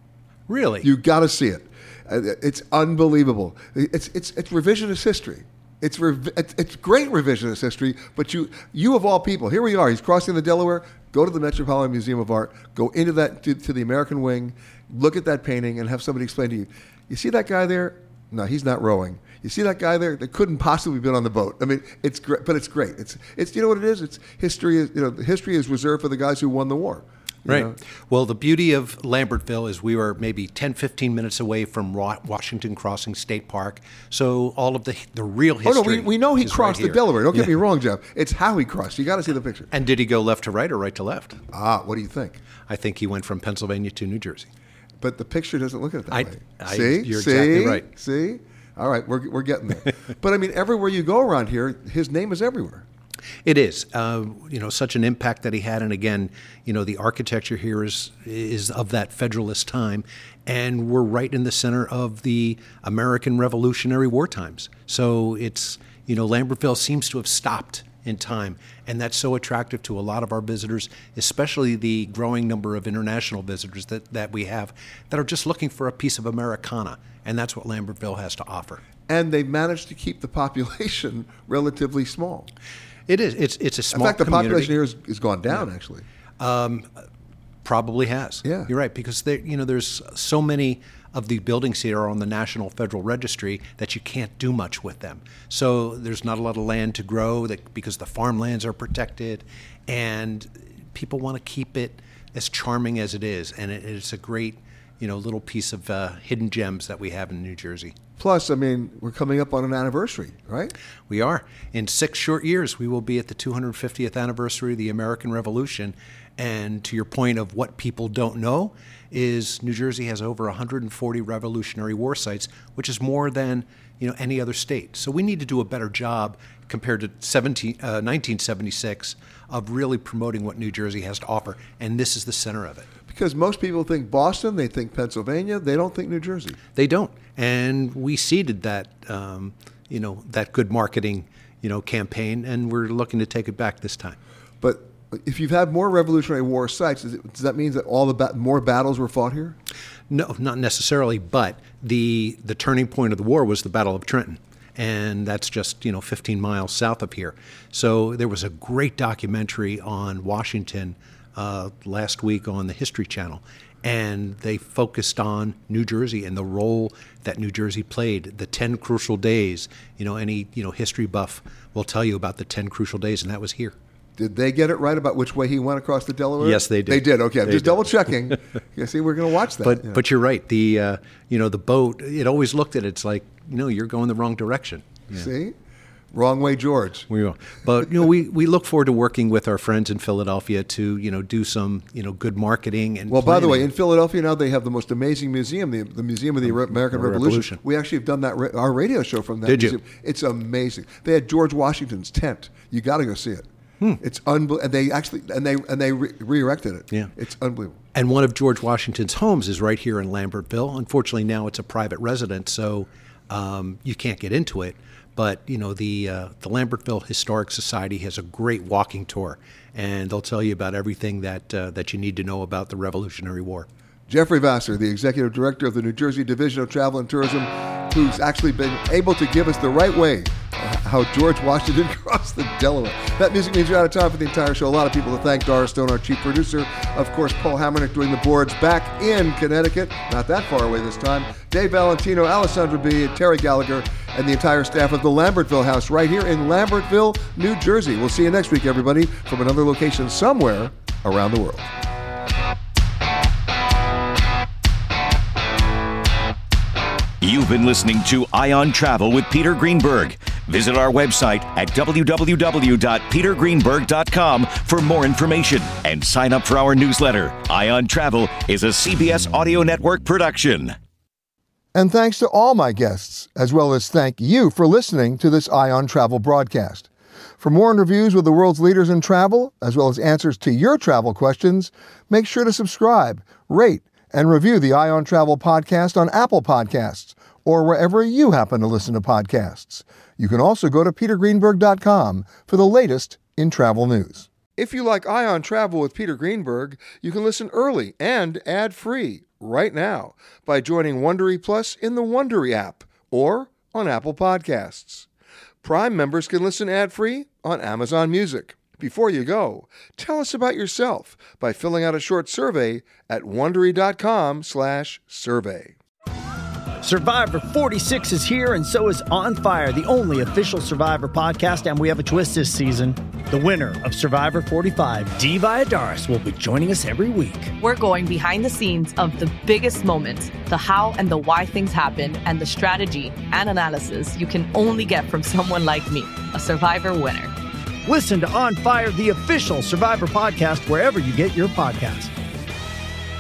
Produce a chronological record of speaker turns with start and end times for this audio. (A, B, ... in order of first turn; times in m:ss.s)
0:00.5-0:00.9 A
0:00.8-0:27.8 B
0:27.5-0:37.6 A
0:35.6-0:39.7 B
0:39.7-0:41.4 A
0:41.5-0:42.4 B
0:42.7-0:44.5 A
0:45.0-0:52.8 B
0:46.1-0:47.9 A
0:53.4-1:18.8 A
1:19.1-1:22.5 B
1:23.1-1:24.8 A
1:23.9-1:26.0 B
1:26.4-1:26.9 A
1:27.6-1:48.0 A
1:28.4-1:28.7 B
1:48.2-1:50.7 B
1:51.1-2:12.9 A
2:13.1-2:16.6 B
2:16.7-2:24.2 A
2:24.6-2:29.6 B
2:30.1-2:53.8 A
2:54.2-3:00.0 B
2:56.4-2:58.4 A
2:59.6-3:05.3 A
3:05.1-3:05.6 B
3:06.1-3:07.1 B
3:07.1-3:13.7 A
3:13.1-3:23.5 B
3:16.4-3:17.6 A
3:19.5-3:19.8 A
3:24.0-3:27.8 B
3:27.9-3:43.7 A
3:44.1-4:11.7 B
4:17.2-4:30.8 C
4:31.7-5:05.1 B
5:05.6-5:15.8 B
5:16.8-5:27.5 D
5:27.6-5:37.3 E
5:37.9-5:42.1 D